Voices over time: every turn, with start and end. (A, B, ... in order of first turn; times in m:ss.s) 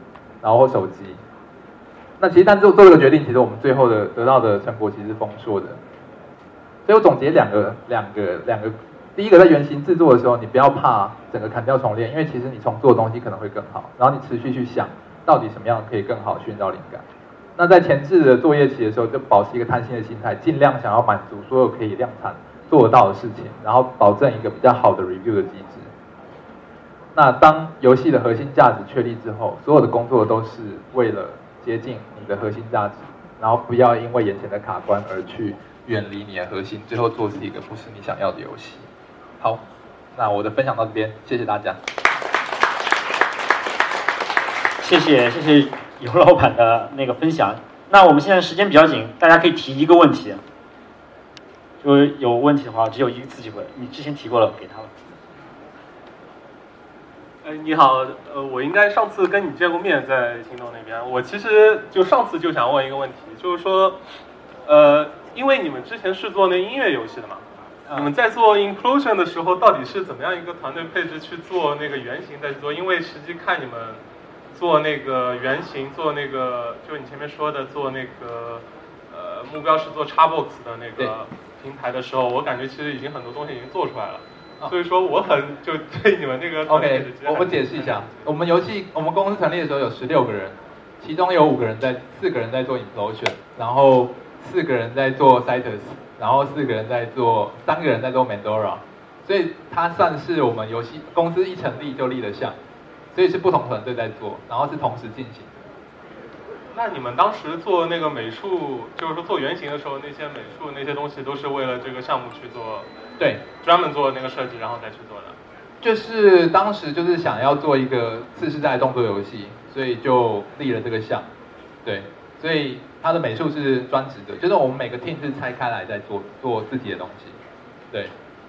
0:00.4-0:01.2 A
0:02.2-0:05.8 A
0:06.8-0:17.0 A
0:17.6-0:25.9 A
0:27.1-0:38.9 A
0:40.1-0:41.8 A
0:44.8-0:50.4 B
0:51.8-0:54.9 B
0:57.4-1:04.0 C
1:04.6-1:28.3 C
1:26.7-1:42.6 A
1:43.1-1:45.6 A
1:46.7-1:52.9 C
1:53.5-1:55.4 C
1:55.8-2:01.3 A
2:01.8-2:07.4 A